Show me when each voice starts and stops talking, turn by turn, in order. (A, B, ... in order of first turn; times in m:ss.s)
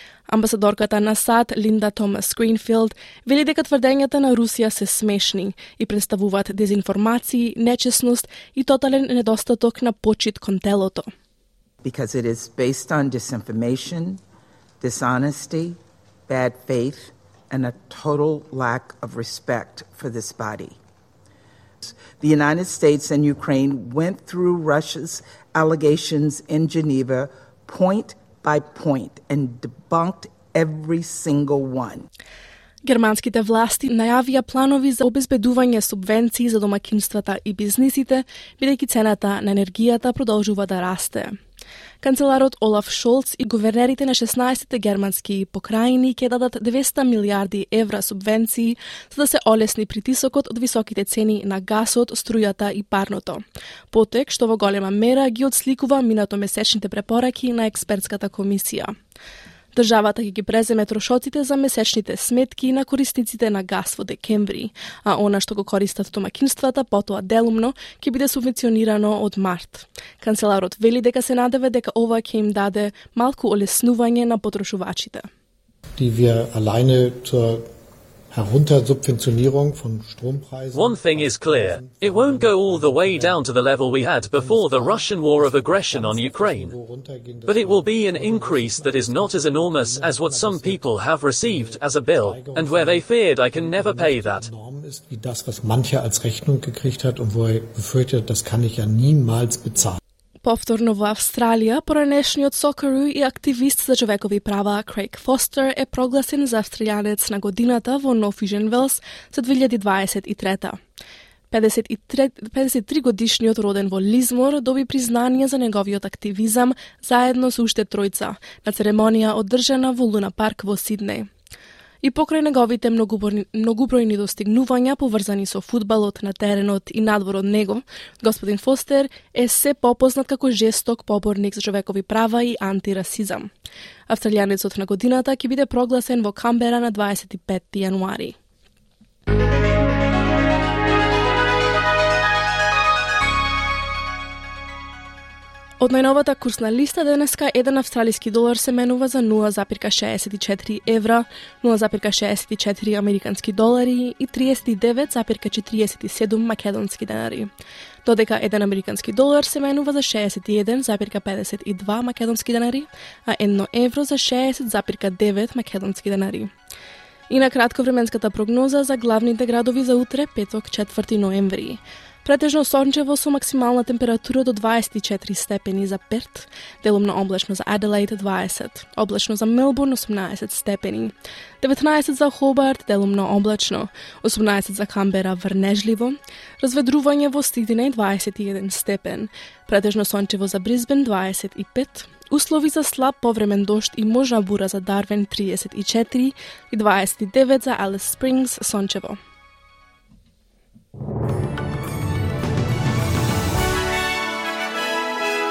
0:00.3-0:11.1 A
0:11.8-0:14.2 B
0:14.8-0:20.8 B
0:21.8-0:32.0 B
0:32.8-0:41.3 A
0:42.0-0:58.9 A
0:59.7-1:15.3 A
1:16.0-1:17.7 C
1:18.3-1:23.5 C
1:20.7-1:26.7 D
1:24.2-1:40.0 C
1:27.4-1:34.5 D
1:40.4-1:50.8 A
1:51.5-2:01.3 A
2:02.0-2:13.5 A
2:14.1-2:18.3 A
2:25.8-2:37.5 A
2:38.0-2:46.5 A
2:47.3-3:19.2 A